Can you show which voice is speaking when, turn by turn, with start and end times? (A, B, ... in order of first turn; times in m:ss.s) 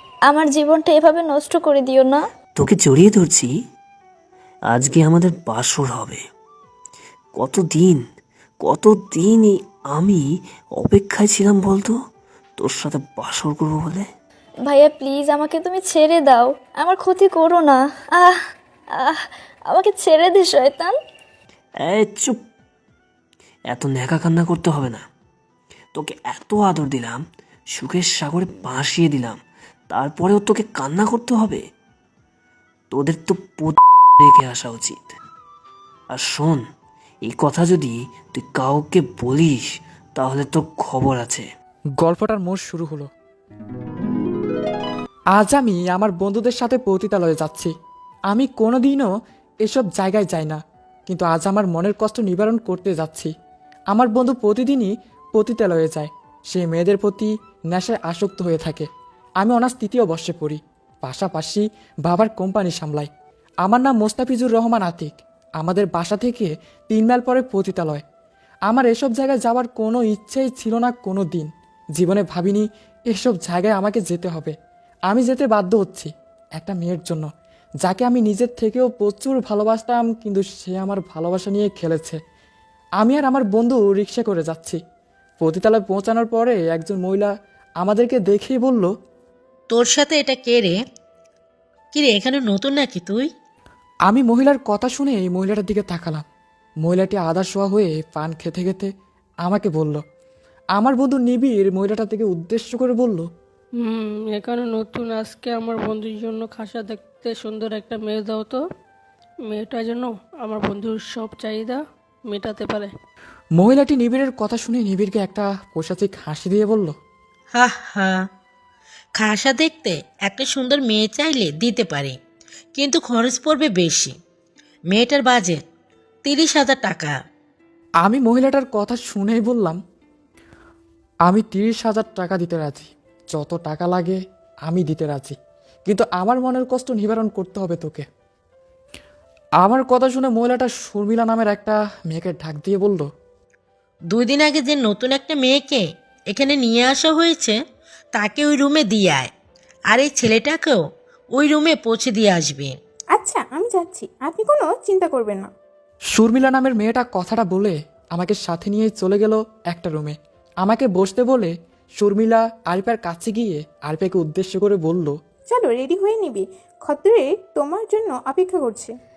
0:00.3-0:02.2 A
0:02.6-0:03.5 B
0:04.7-0:06.2 B
0:07.4-0:08.0 B
0:08.6-0:10.2 B
0:10.8-0:11.9 B
0:12.6-0:14.0 B
0:14.7-0:18.4 A
0:19.0-0:20.9 A
0:21.8-0:22.4 B
0:23.7-0:25.0 B
0:26.0-0:27.2 B
0:27.7-0:29.4 B
0:29.9-0:31.6 B
0:32.9-0:35.0 B
0:36.1-0:36.6 B
0:37.2-0:39.6 B
0:40.2-0:41.4 B
0:42.0-0:43.1 C
0:45.3-0:47.7 C
0:48.3-0:49.1 C
0:49.6-0:53.3 C
0:53.9-0:58.9 C
0:59.4-1:03.1 C
1:03.6-1:08.0 C
1:08.7-1:14.5 C
1:15.1-1:17.3 C
1:17.8-1:22.2 C
1:23.0-1:24.8 C
1:25.4-1:27.3 C
1:27.8-1:28.9 C
1:29.7-1:30.8 D
1:31.9-1:33.3 D
1:34.1-1:36.2 C
1:36.8-1:38.9 C
1:39.4-1:40.0 C
1:40.7-1:43.3 C
1:43.8-1:48.6 E
1:49.4-1:52.9 E
1:53.6-1:56.9 C
1:57.5-1:58.2 D
1:59.2-2:02.2 D
2:02.8-2:04.1 D
2:04.9-2:05.6 D
2:06.2-2:07.1 D
2:08.0-2:09.8 C
2:11.2-2:15.3 C
2:15.9-2:18.0 C
2:19.6-2:23.1 C
2:24.1-2:27.6 D
2:28.1-2:29.3 D
2:29.9-2:32.8 D
2:33.1-2:35.5 F
2:36.1-2:45.1 C
2:45.5-2:49.0 F